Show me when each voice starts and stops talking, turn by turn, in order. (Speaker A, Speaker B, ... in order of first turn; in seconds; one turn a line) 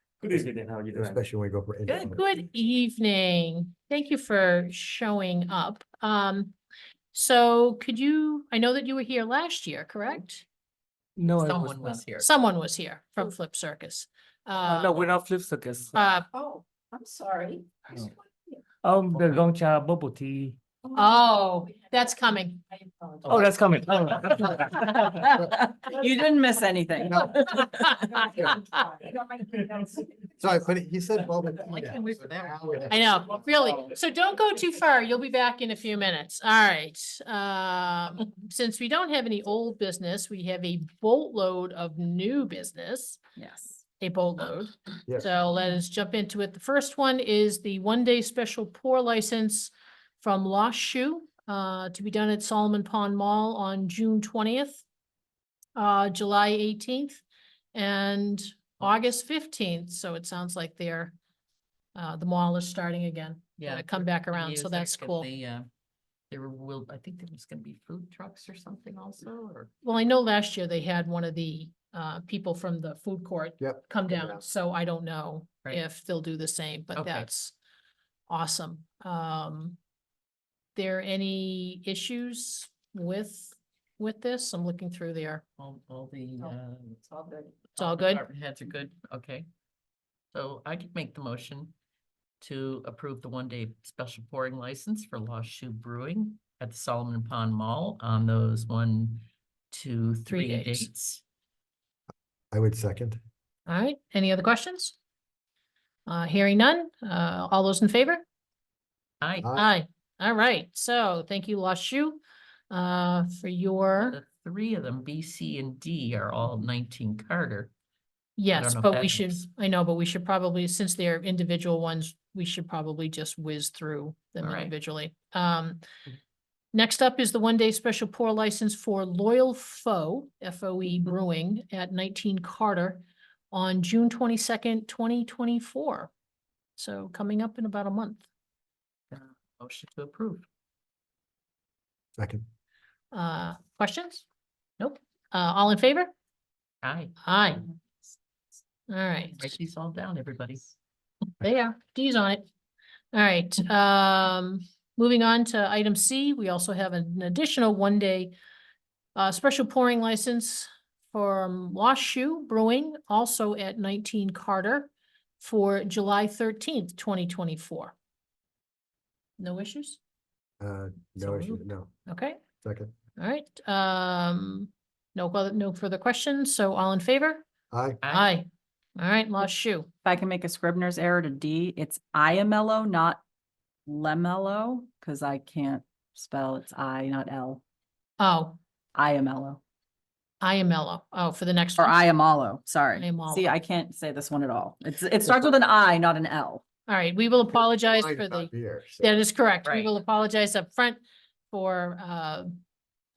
Speaker A: 0.2-1.2
Speaker B: 0.9-2.2
Speaker C: 1.9-2.2
Speaker D: 2.1-6.5
Speaker D: 7.1-10.5
Speaker A: 11.2-12.0
Speaker C: 11.4-12.3
Speaker D: 12.2-15.1
Speaker A: 14.7-16.0
Speaker D: 15.9-16.3
Speaker E: 16.0-18.6
Speaker A: 18.8-20.6
Speaker D: 20.9-22.7
Speaker E: 22.9-23.2
Speaker A: 23.3-25.3
Speaker E: 24.6-28.5
Speaker D: 27.8-28.1
Speaker E: 29.0-30.1
Speaker B: 30.4-33.3
Speaker D: 32.9-43.2
Speaker E: 43.4-43.8
Speaker D: 44.0-54.8
Speaker D: 55.8-57.2
Speaker D: 57.7-61.1
Speaker D: 62.0-65.3
Speaker C: 63.6-65.7
Speaker C: 66.3-69.7
Speaker D: 69.8-77.6
Speaker B: 73.6-74.4
Speaker C: 76.9-77.3
Speaker D: 78.3-79.8
Speaker D: 80.8-85.4
Speaker C: 85.6-87.0
Speaker E: 87.1-87.5
Speaker C: 87.7-89.5
Speaker D: 87.8-88.2
Speaker C: 90.3-91.7
Speaker C: 92.4-101.2
Speaker D: 100.3-100.9
Speaker B: 102.5-103.2
Speaker D: 103.7-105.0
Speaker D: 106.1-108.2
Speaker C: 109.2-109.5
Speaker B: 109.4-109.7
Speaker D: 109.5-114.2
Speaker C: 114.0-117.7
Speaker D: 118.4-125.8
Speaker C: 118.5-119.4
Speaker C: 124.4-124.7
Speaker D: 126.7-136.1
Speaker D: 136.8-138.3
Speaker C: 139.1-140.4
Speaker B: 142.2-142.4
Speaker D: 143.1-144.2
Speaker D: 144.8-146.1
Speaker C: 146.8-147.2
Speaker D: 147.2-147.7
Speaker D: 148.9-149.5
Speaker C: 149.3-150.8
Speaker D: 151.4-152.4
Speaker D: 153.1-158.3
Speaker D: 159.1-167.9
Speaker D: 169.4-170.0
Speaker B: 170.6-171.9
Speaker D: 171.2-172.4
Speaker B: 172.6-172.9
Speaker D: 173.2-177.5
Speaker B: 177.7-178.0
Speaker C: 178.0-178.3
Speaker D: 178.1-179.9
Speaker E: 180.0-183.2
Speaker E: 183.9-187.6
Speaker D: 188.2-188.6
Speaker E: 188.9-189.6
Speaker D: 190.4-192.0
Speaker E: 191.8-196.6
Speaker D: 192.9-193.5
Speaker D: 196.9-202.6
Speaker B: 197.9-199.2
Speaker C: 199.6-199.9